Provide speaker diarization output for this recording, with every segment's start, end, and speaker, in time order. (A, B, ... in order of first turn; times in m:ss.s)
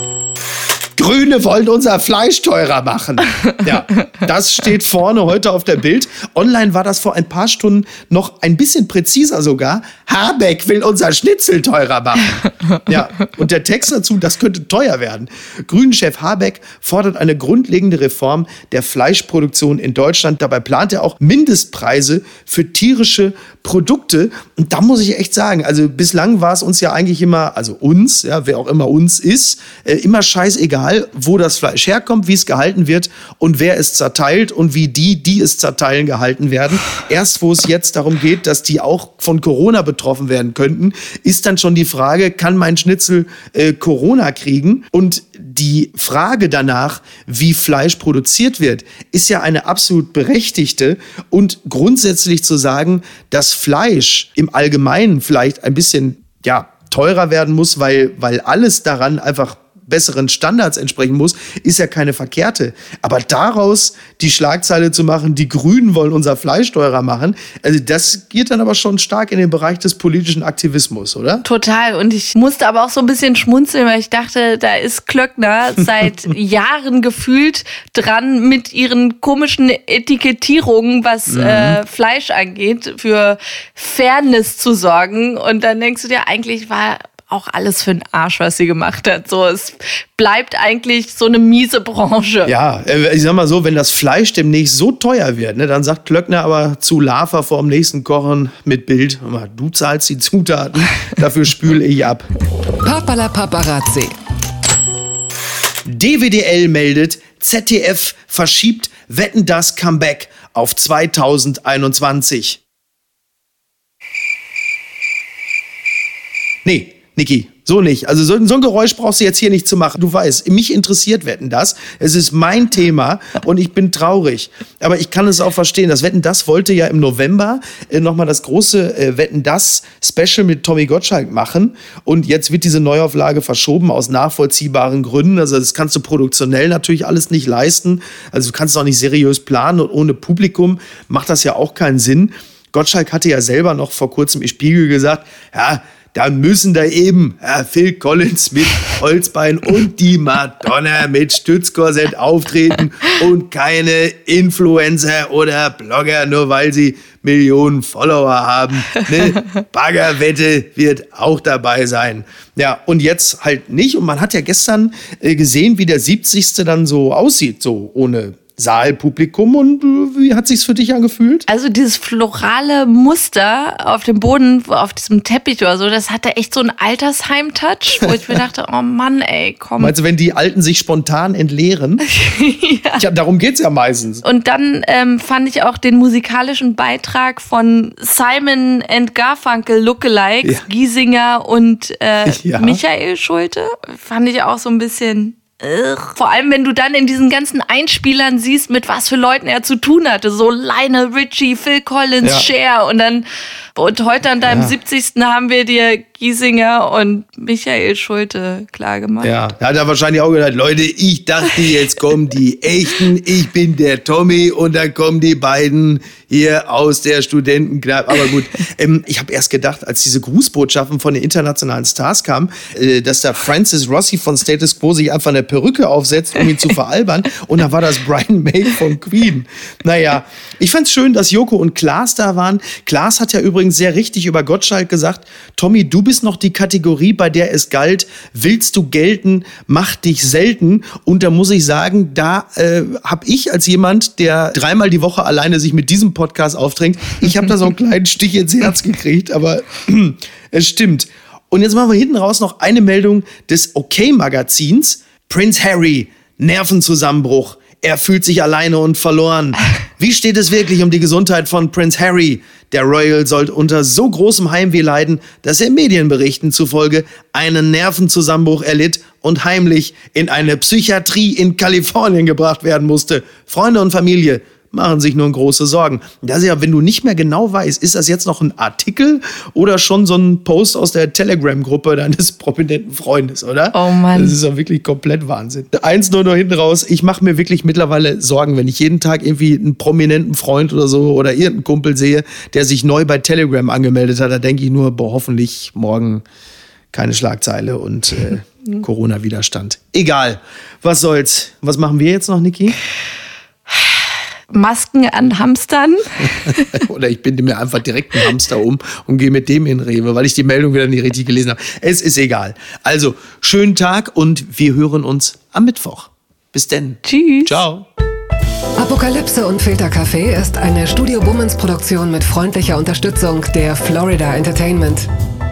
0:01.0-1:11.4 A
1:11.4-1:32.5 B
1:21.3-1:21.8 A
1:32.4-1:42.3 A
1:42.8-1:44.1 C
1:45.9-1:52.6 A
1:56.6-2:51.5 A
2:51.5-2:59.9 B
2:58.0-2:58.4 A
2:59.8-3:02.0 A
3:02.1-3:03.0 B
3:03.0-3:04.2 A
3:04.2-3:29.5 B
3:12.2-3:12.8 A
3:22.2-3:22.5 A
3:24.4-3:24.8 A
3:29.2-4:56.2 A
4:43.7-4:44.4 B
4:56.9-5:02.8 A
5:03.7-5:06.8 B
5:06.4-5:17.9 A
5:17.0-5:17.6 B
5:18.8-5:25.1 C